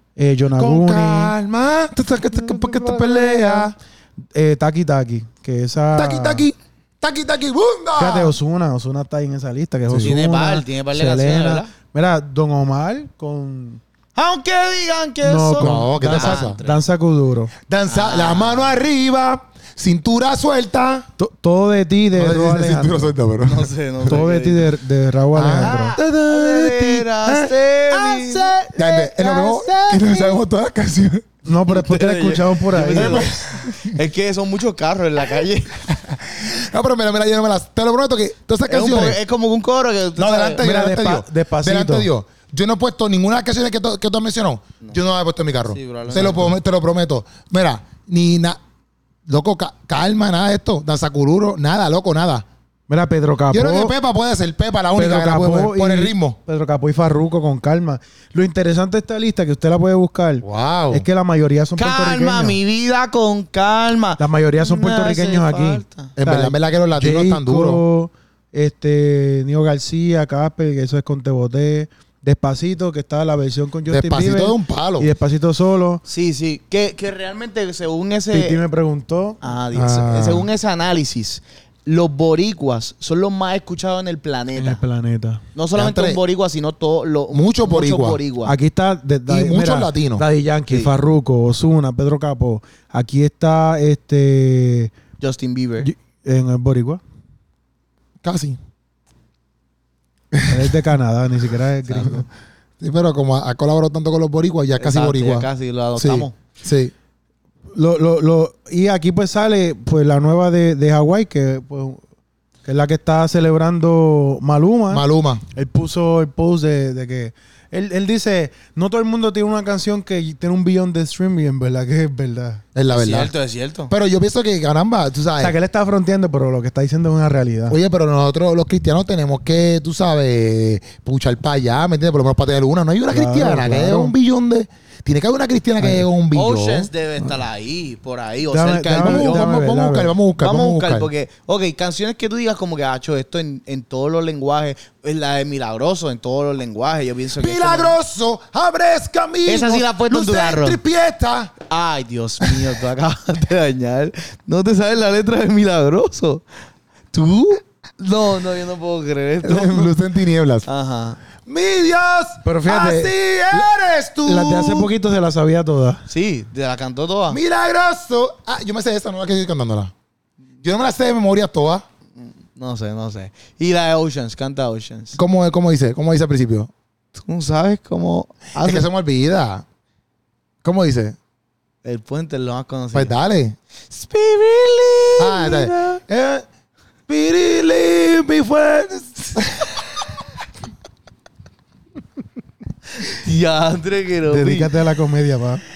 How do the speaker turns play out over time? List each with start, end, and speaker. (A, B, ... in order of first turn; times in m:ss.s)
0:00.2-0:01.4 A
0:00.6-0:03.7 B
0:02.2-0:03.7 A
0:04.3-0:06.4 A
0:06.0-0:08.4 B
0:08.0-0:13.8 A
0:09.9-0:10.2 B
0:10.0-0:11.7 C
0:14.2-0:16.8 C
0:15.2-0:17.5 A
0:15.6-0:16.6 B
0:17.7-0:21.1 B
0:17.9-0:18.8 C
0:21.2-0:23.1 A
0:22.2-0:23.7 B
0:23.4-0:24.7 C
0:24.1-0:26.0 A
0:25.3-0:31.3 B
0:25.6-0:30.4 C
0:31.4-0:33.3 A
0:31.7-0:36.0 C
0:32.9-0:34.0 B
0:35.9-0:39.2 B
0:38.7-0:40.6 C
0:40.2-0:48.6 B
0:40.6-0:42.1 A
0:45.7-0:46.6 C
0:49.3-0:52.4 B
0:52.9-0:53.9 A
0:53.5-0:56.4 B
0:55.0-1:02.6 A
1:00.4-1:01.1 B
1:01.8-1:06.1 C
1:04.2-1:16.0 A
1:06.2-1:07.8 B
1:13.9-1:15.1 B
1:16.1-1:18.6 C
1:18.3-1:19.4 A
1:19.4-1:24.8 C
1:19.7-1:20.5 B
1:24.6-1:25.4 A
1:25.6-1:28.5 C
1:25.7-1:26.2 B
1:27.3-1:28.2 B
1:28.4-1:34.9 A
1:29.3-1:30.2 B
1:35.2-1:35.9 C
1:35.8-1:37.0 A
1:38.2-1:38.6 B
1:40.3-1:40.7 B
1:40.5-1:42.3 A
1:41.9-1:42.2 C
1:42.8-1:46.9 B
1:44.8-1:46.3 C
1:47.7-1:52.0 A
1:52.6-2:02.6 A
1:54.9-1:55.4 B
2:02.8-2:03.3 B
2:02.9-2:03.9 C
2:03.9-2:05.6 B
2:05.4-2:07.8 A
2:07.7-2:16.9 B
2:13.1-2:14.1 A
2:15.8-2:16.0 A
2:16.3-2:19.5 C
2:18.5-2:20.1 A
2:19.0-2:21.1 B
2:20.4-2:28.0 C
2:27.4-2:31.5 B
2:29.5-2:30.8 C
2:31.7-2:36.4 C
2:32.4-2:32.7 B
2:37.1-2:40.0 C
2:39.4-2:40.7 B
2:40.7-2:41.2 C
2:41.4-2:44.9 B
2:42.4-2:43.1 A
2:42.8-2:43.7 C
2:44.2-2:46.0 A
2:46.1-2:47.4 C
2:47.3-2:49.9 B
2:50.6-2:51.8 B
2:52.6-2:55.2 C
2:55.2-2:56.7 B
2:57.2-2:58.9 C
2:58.6-2:59.6 B
3:00.6-3:01.2 B
3:01.8-3:03.1 C
3:02.9-3:03.6 B
3:03.9-3:06.0 C
3:05.2-3:06.5 B
3:07.1-3:10.1 B
3:13.0-3:14.7 C
3:14.3-3:15.6 A